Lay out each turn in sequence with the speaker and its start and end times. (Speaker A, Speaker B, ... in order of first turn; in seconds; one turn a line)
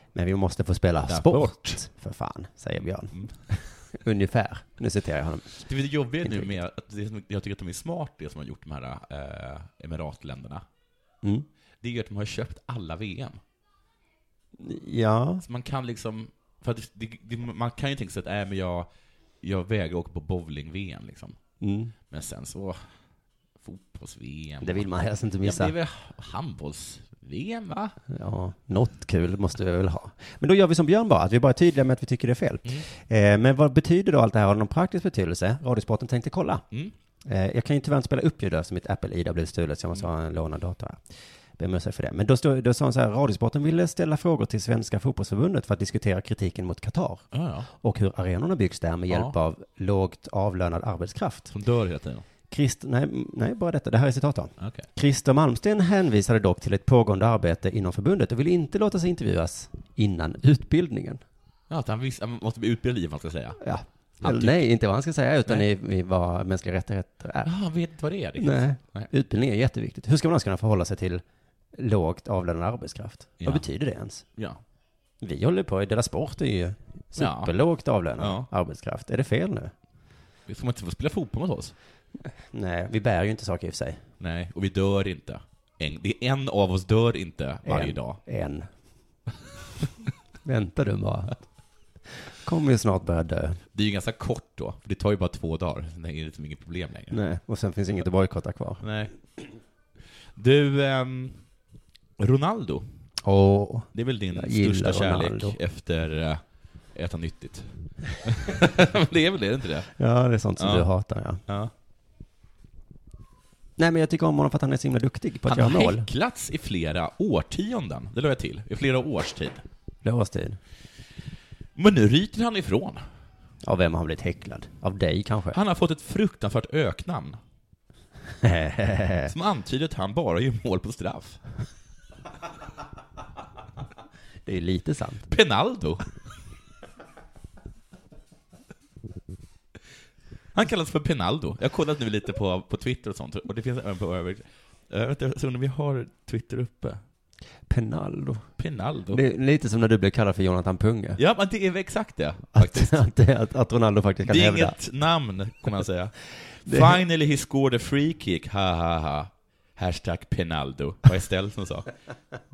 Speaker A: 0.1-5.6
Speaker B: 1.1-1.8
Speaker B: 5.6-10.7
Speaker A: 6.2-6.5
Speaker B: 11.8-13.4
Speaker A: 14.6-15.4
Speaker B: 15.4-18.9
Speaker B: 19.4-21.4
Speaker A: 21.6-21.9
Speaker B: 22.1-22.8
Speaker B: 23.6-24.9
Speaker A: 24.6-25.7
Speaker B: 25.4-28.0
Speaker A: 28.1-36.6
Speaker A: 37.2-41.0
Speaker A: 41.6-51.5
Speaker B: 47.3-47.7
Speaker B: 49.1-49.4
Speaker B: 51.5-52.2
Speaker A: 52.5-61.2
Speaker B: 54.6-54.9
Speaker B: 61.7-63.6
Speaker A: 63.6-67.5
Speaker B: 64.2-64.6
Speaker B: 67.5-69.1
Speaker A: 68.4-71.2
Speaker A: 71.7-74.2
Speaker B: 74.3-74.6
Speaker A: 75.2-79.7
Speaker B: 77.2-77.5
Speaker B: 78.2-78.5
Speaker B: 80.5-81.7
Speaker A: 82.2-84.0
Speaker B: 84.2-88.2
Speaker A: 87.7-88.7
Speaker A: 90.4-91.4
Speaker A: 92.1-93.6
Speaker B: 93.7-97.2
Speaker A: 97.1-98.9
Speaker B: 98.8-99.1
Speaker B: 100.3-101.5
Speaker B: 102.2-102.9
Speaker A: 103.2-105.6
Speaker B: 103.9-106.4
Speaker B: 106.9-109.9
Speaker A: 110.0-111.4
Speaker B: 110.6-110.9
Speaker B: 111.5-111.7
Speaker A: 113.8-116.1
Speaker B: 115.5-119.6
Speaker A: 120.0-120.6
Speaker B: 121.8-123.0
Speaker A: 123.6-125.6
Speaker B: 125.5-127.4
Speaker A: 128.4-129.3
Speaker B: 129.3-131.4
Speaker A: 134.4-135.3
Speaker B: 135.3-136.1
Speaker B: 140.5-147.0
Speaker A: 147.7-148.5
Speaker B: 148.6-149.2
Speaker A: 149.1-151.2
Speaker B: 151.2-153.1
Speaker A: 152.6-154.8
Speaker B: 154.3-161.9
Speaker A: 156.7-157.0